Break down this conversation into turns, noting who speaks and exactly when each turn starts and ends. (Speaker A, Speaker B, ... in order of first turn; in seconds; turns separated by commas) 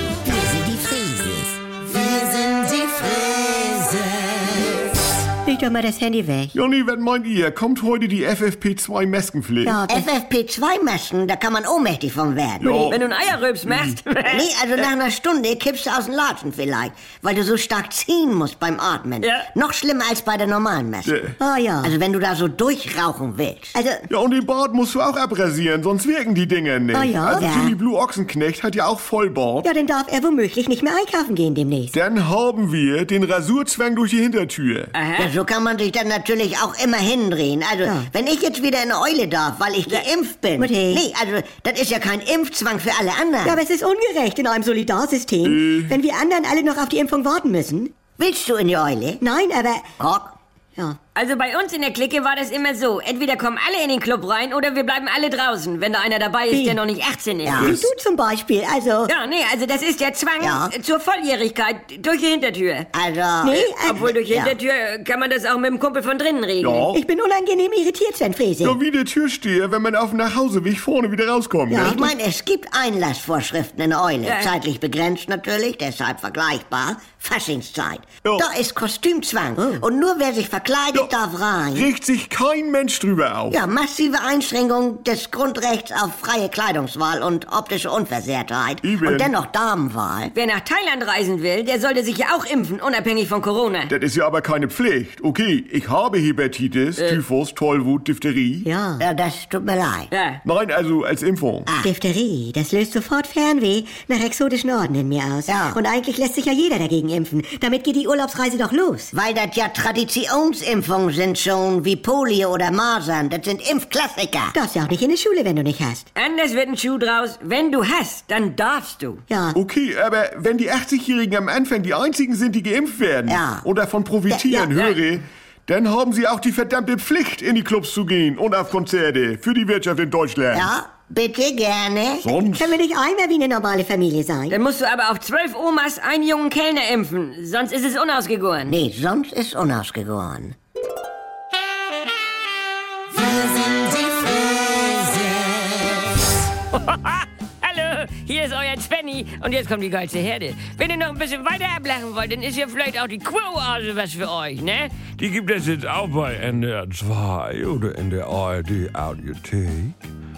Speaker A: 0.2-1.6, Speaker A: 2.5-4.0, Speaker B: 5.4-6.5, Speaker C: 6.5-9.8, Speaker B: 9.6-10.1, Speaker A: 9.9-12.8, Speaker C: 12.6-13.0, Speaker B: 12.6-13.0, Speaker D: 12.9-14.5, Speaker C: 13.7-13.9, Speaker A: 14.3-21.2, Speaker D: 19.2-19.5, Speaker C: 21.1-21.4, Speaker B: 21.4-21.9, Speaker A: 21.8-23.8, Speaker B: 23.7-24.1, Speaker C: 24.1-29.7, Speaker B: 26.9-27.7, Speaker A: 27.4-27.7, Speaker B: 29.6-31.9, Speaker C: 31.9-34.9, Speaker D: 34.9-35.3, Speaker A: 35.2-43.6, Speaker B: 37.8-38.1, Speaker B: 40.6-41.0, Speaker B: 43.4-47.9, Speaker C: 45.4-46.0, Speaker A: 48.2-49.2, Speaker B: 49.2-49.9, Speaker A: 50.0-50.4, Speaker D: 51.1-57.6, Speaker B: 56.5-56.8, Speaker A: 57.4-57.8, Speaker C: 57.5-57.9, Speaker B: 57.6-59.1, Speaker D: 59.1-62.9, Speaker A: 60.4-60.7, Speaker A: 62.9-63.6, Speaker B: 63.4-64.0, Speaker D: 63.5-66.9, Speaker A: 64.3-64.5, Speaker C: 66.6-67.0, Speaker B: 66.9-68.8, Speaker C: 68.6-72.0, Speaker B: 71.7-72.1, Speaker A: 71.8-81.9, Speaker D: 74.2-74.5, Speaker B: 79.6-79.8, Speaker C: 81.7-83.6, Speaker A: 83.5-90.3, Speaker C: 88.8-89.3, Speaker D: 90.3-93.9, Speaker C: 93.9-98.7, Speaker B: 98.6-99.0, Speaker A: 99.0-100.1, Speaker D: 100.1-100.4, Speaker C: 100.4-101.7, Speaker B: 101.8-109.1, Speaker A: 105.5-105.8, Speaker A: 109.1-114.5, Speaker B: 114.5-116.1, Speaker D: 116.2-119.2, Speaker B: 119.3-119.6, Speaker C: 119.5-130.7, Speaker A: 123.3-123.7, Speaker A: 130.5-132.3, Speaker C: 132.2-132.8, Speaker B: 132.5-134.6, Speaker D: 134.5-138.8, Speaker A: 138.7-140.6, Speaker D: 143.2-146.1, Speaker D: 146.7-155.0, Speaker E: 155.1-160.1